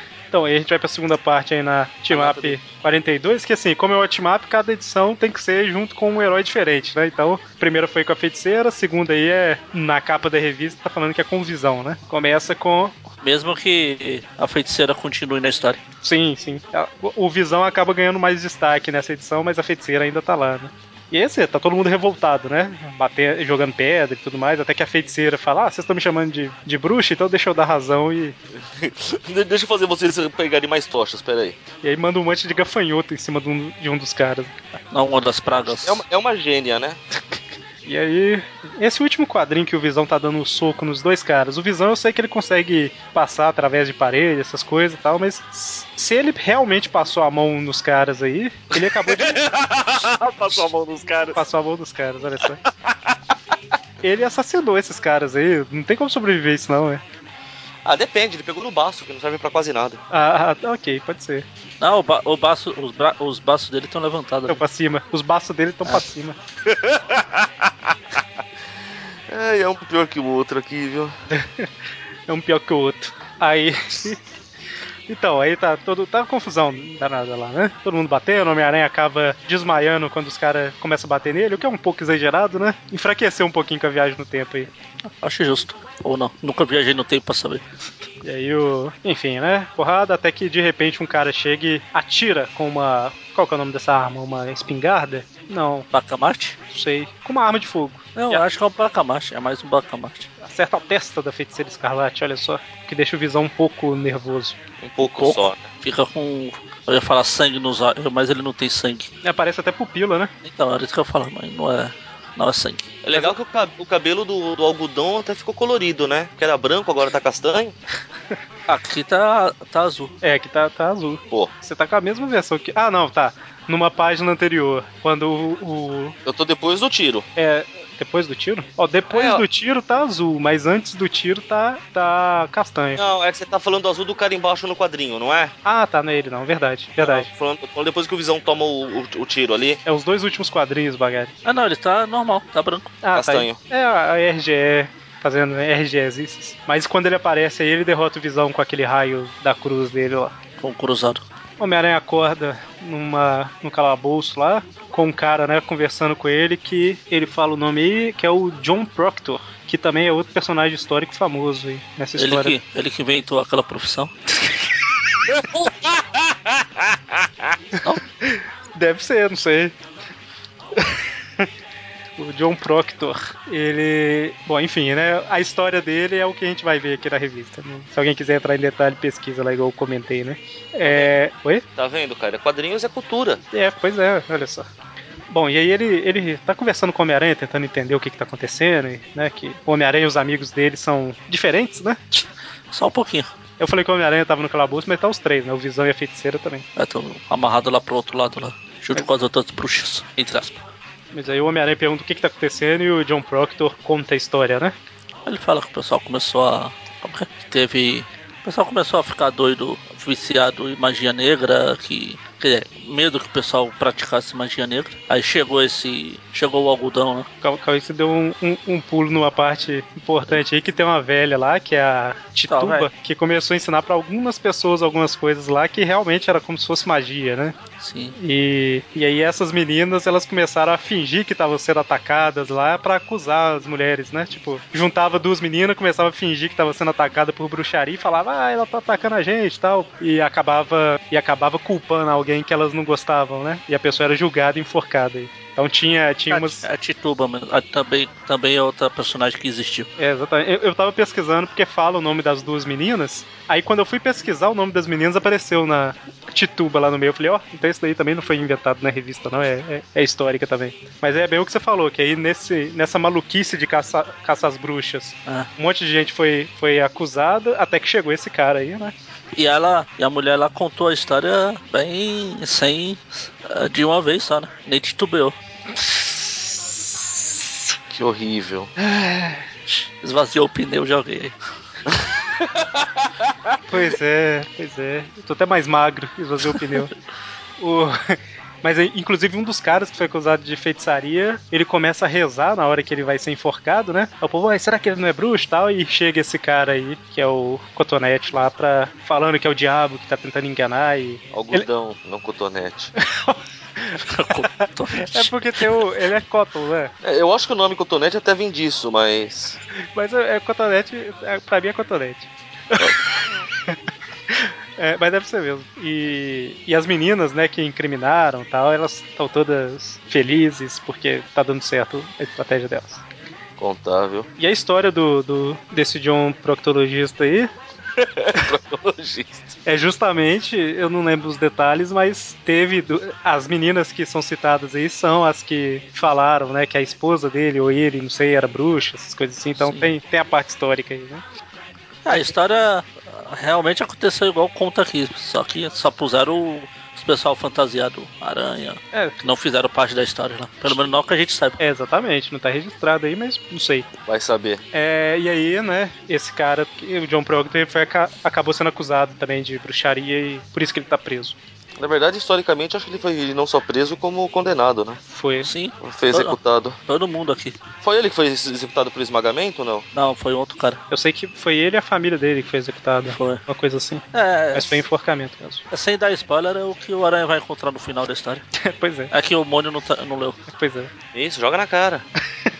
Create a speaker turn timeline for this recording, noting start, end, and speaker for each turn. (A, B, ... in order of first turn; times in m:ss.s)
0:00.3-0:13.0 A
0:02.1-0:02.6 B
0:13.2-0:15.8 C
0:16.0-0:28.4 A
0:28.6-0:31.6 B
0:31.8-0:34.5 A
0:34.9-0:36.0 C
0:35.6-0:37.0 B
0:37.8-0:49.4 A
0:48.8-0:51.4 B
0:51.4-0:52.6 A
0:52.9-0:53.2 B
0:54.0-0:57.0 A
0:57.8-1:00.0 B
1:00.1-1:01.4 A
1:01.8-1:04.6 C
1:04.5-1:06.4 A
1:06.7-1:08.2 B
1:09.3-1:11.1 B
1:11.3-1:11.7 A
1:12.3-1:14.2 A
1:15.1-1:24.7 A
1:25.2-1:27.6 C
1:28.2-1:35.9 A
1:35.9-1:36.6 C
1:36.7-1:38.4 A
1:38.2-1:40.3 C
1:40.4-1:44.6 A
1:44.8-1:45.7 B
1:45.0-1:49.1 C
1:49.2-1:50.3 A
1:50.4-1:52.9 C
1:53.0-1:57.8 B
1:58.7-2:00.1 C
2:00.2-2:06.2 A
2:06.2-2:07.3 B
2:07.4-2:13.0 A
2:09.1-2:09.4 B
2:13.0-2:15.5 B
2:15.6-2:17.3 A
2:17.0-2:19.8 B
2:19.8-2:21.3 A
2:21.4-2:22.9 C
2:23.0-2:30.3 A
2:23.1-2:23.6 B
2:30.6-2:31.2 C
2:31.6-2:42.6 A
2:42.2-2:44.1 C
2:47.8-2:49.8 A
2:50.8-2:51.5 A
2:52.2-3:01.6 A
3:00.8-3:01.1 B
3:01.8-3:03.4 B
3:03.5-3:04.7 A
3:05.3-3:12.2 A
3:12.7-3:13.3 C
3:13.6-3:16.6 A
3:16.8-3:20.6 C
3:21.1-3:24.8 A
3:25.3-3:37.3 C
3:37.4-3:47.6 A
3:42.5-3:42.9 C
3:47.8-3:48.2 C
3:48.2-4:06.7 A
4:06.3-4:09.9 C
4:10.0-4:28.9 A
4:29.4-4:35.4 C
4:37.9-4:38.7 B
4:38.8-4:39.4 A
4:39.7-4:41.4 C
4:41.9-4:43.3 B
4:43.7-4:46.9 A
4:47.6-5:01.7 A
5:01.3-5:02.9 B
5:03.0-5:06.9 A
5:04.0-5:05.8 C
5:07.0-5:09.6 B
5:09.9-5:13.8 A
5:14.3-5:23.0 A
5:23.6-5:24.3 B
5:24.4-5:27.5 A
5:28.0-5:29.5 B
5:29.6-5:41.2 A
5:39.6-5:39.9 C
5:42.0-5:51.6 C
5:48.9-5:49.2 A
5:51.6-5:53.9 A
5:54.1-5:54.6 B
5:54.7-6:01.4 A
6:01.8-6:05.0 B
6:05.1-6:05.5 A
6:05.4-6:07.6 C
6:05.8-6:06.8 B
6:07.8-6:09.9 B
6:09.9-6:10.8 C
6:10.9-6:15.6 A
6:13.1-6:13.4 C
6:14.1-6:14.8 C
6:15.7-6:18.4 C
6:18.6-6:19.1 A
6:19.1-6:20.4 C
6:20.5-6:20.9 A
6:21.1-6:22.1 B